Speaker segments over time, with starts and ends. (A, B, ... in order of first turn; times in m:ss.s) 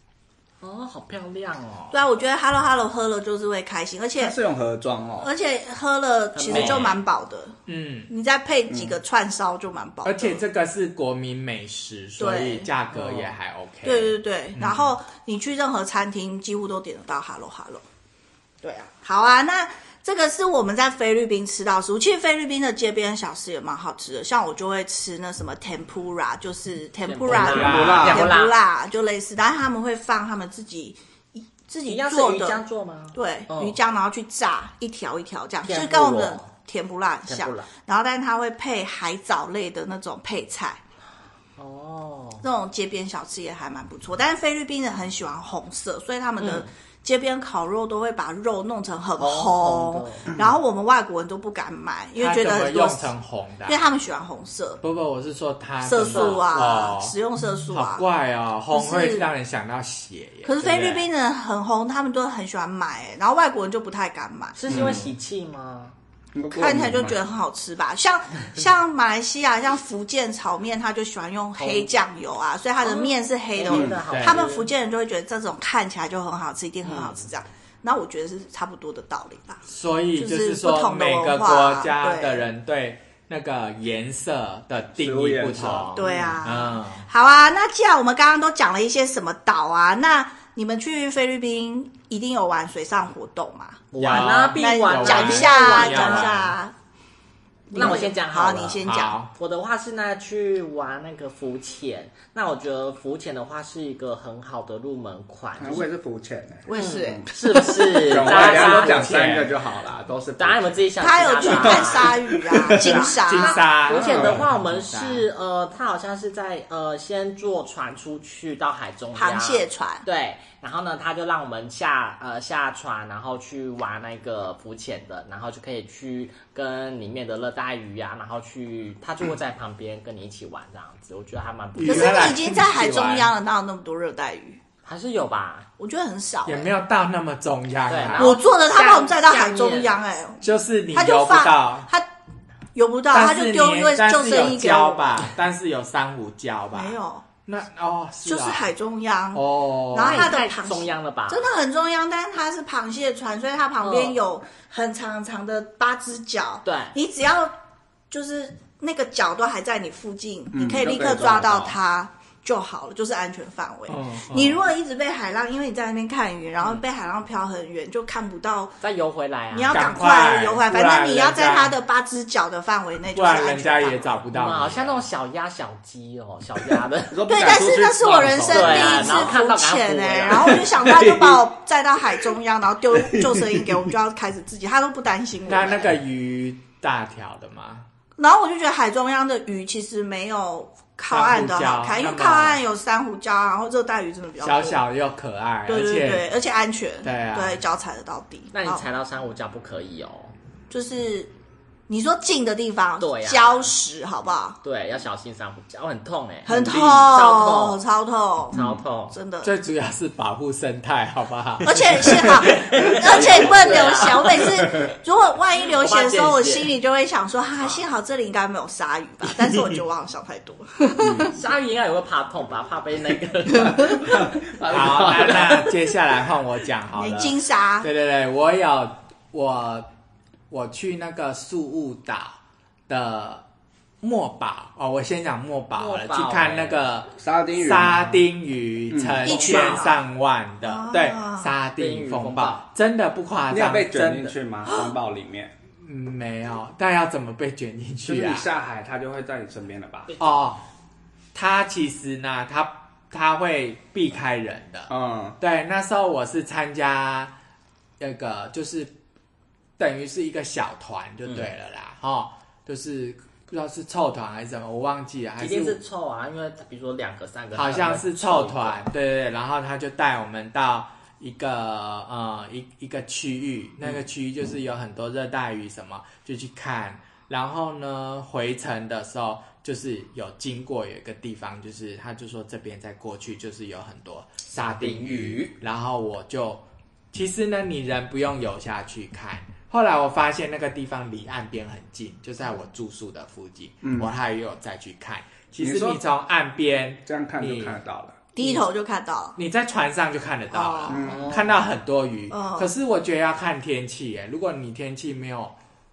0:00.6-0:02.0 A
0:01.9-0:04.4 B
0:04.2-0:05.3 C
0:05.2-0:07.6 B
0:06.3-0:07.0 A
0:06.5-0:06.9 D
0:07.7-0:08.1 D
0:08.1-0:10.4 B
0:08.7-0:09.0 C
0:10.0-0:14.9 D
0:12.2-0:12.7 B
0:12.9-0:13.3 A
0:13.8-0:17.8 B
0:18.6-0:32.6 B
0:27.0-0:28.6 A
0:27.3-0:28.2 D
0:27.3-0:28.3 C
0:31.8-0:33.8 A
0:33.1-0:40.8 B
0:35.6-0:36.5 A
0:37.3-0:37.7 A
0:41.6-0:42.4 A
0:42.4-0:53.1 B
0:46.4-0:46.7 A
0:49.2-0:50.3 A
0:52.2-0:53.8 D
0:53.6-0:54.8 B
0:54.8-0:57.1 D
0:55.8-0:58.0 B
0:56.0-0:56.4 A
0:57.7-1:01.0 D
0:58.7-0:59.3 B
1:00.4-1:04.6 B
1:04.5-1:05.9 A
1:04.7-1:05.1 C
1:06.3-1:07.2 C
1:06.5-1:19.6 B
1:11.6-1:11.9 A
1:12.8-1:14.7 A
1:13.7-1:14.0 C
1:14.1-1:14.4 D
1:16.8-1:17.2 A
1:19.6-1:27.0 D
1:20.2-1:22.4 B
1:24.9-1:26.0 C
1:25.9-1:26.4 A
1:25.9-1:36.7 B
1:33.9-1:36.3 A
1:34.0-1:36.6 D
1:37.7-1:39.2 B
1:37.7-1:45.8 A
1:38.8-1:39.3 D
1:45.6-1:47.2 C
1:46.7-1:48.0 B
1:46.7-1:49.2 A
1:48.0-1:50.8 C
1:48.1-1:49.5 D
1:50.4-1:52.2 A
1:51.0-1:53.6 B
1:51.4-1:53.2 C
1:52.8-2:12.3 A
1:53.0-1:55.3 D
1:53.9-1:54.4 C
1:59.1-2:00.0 B
2:11.7-2:13.3 D
2:11.8-2:14.6 B
2:14.8-2:15.7 A
2:15.8-2:16.7 B
2:16.4-2:18.4 D
2:17.9-2:19.9 A
2:18.2-2:22.0 B
2:20.4-2:21.9 D
2:22.7-2:25.3 B
2:23.1-2:28.7 D
2:26.7-2:27.2 B
2:28.2-2:37.5 B
2:29.3-2:30.3 D
2:30.0-2:31.4 A
2:33.8-2:34.2 A
2:36.6-2:37.0 A
2:38.1-2:48.8 B
2:40.5-2:41.8 C
2:43.9-2:44.6 D
2:48.8-2:49.8 A
2:49.5-2:54.2 B
2:49.7-2:51.8 D
2:53.1-2:55.0 D
2:54.3-2:57.2 A
2:57.1-2:59.4 C
2:57.3-3:05.9 B
2:58.2-3:00.7 A
3:00.3-3:01.4 C
3:02.9-3:03.8 C
3:05.4-3:07.9 D
3:08.2-3:14.8 B
3:11.1-3:12.6 D
3:14.4-3:16.3 D
3:15.7-3:18.8 B
3:17.0-3:17.6 D
3:18.5-3:20.3 A
3:20.7-3:21.3 B
3:21.9-3:24.6 B
3:23.0-3:23.6 A
3:24.6-3:27.8 A
3:26.4-3:28.6 B
3:26.5-3:27.1 C
3:28.5-3:29.2 A
3:28.5-3:28.8 C
3:29.1-3:29.5 B
3:29.4-3:32.7 D
3:31.6-3:41.3 B
3:32.5-3:34.4 A
3:33.1-3:33.9 C
3:35.6-3:36.7 A
3:41.0-3:41.3 C
3:41.3-3:44.1 A
3:43.7-3:45.8 C
3:44.6-3:49.9 D
3:46.9-3:47.9 B
3:50.5-3:52.4 D
3:52.9-3:53.4 D
3:54.0-4:04.3 D
3:55.8-3:56.9 A
3:57.2-3:58.2 C
3:58.9-3:59.5 C
3:59.2-4:00.0 B
4:00.6-4:01.5 B
4:01.8-4:02.6 A
4:03.5-4:05.5 C
4:05.8-4:08.5 D
4:08.0-4:10.1 C
4:10.2-4:10.6 D
4:11.3-4:17.3 D
4:14.9-4:15.4 C
4:18.0-4:18.9 D
4:19.8-4:25.8 D
4:25.4-4:28.8 A
4:27.5-4:57.8 D
4:44.8-4:45.5 C
4:53.8-4:54.1 C
4:55.6-4:56.0 C
4:57.0-4:58.2 C
4:58.3-4:59.4 B
4:58.4-4:58.7 D
4:59.4-5:05.5 D
5:00.5-5:01.0 B
5:00.9-5:01.3 C
5:01.0-5:01.5 A
5:02.3-5:02.7 B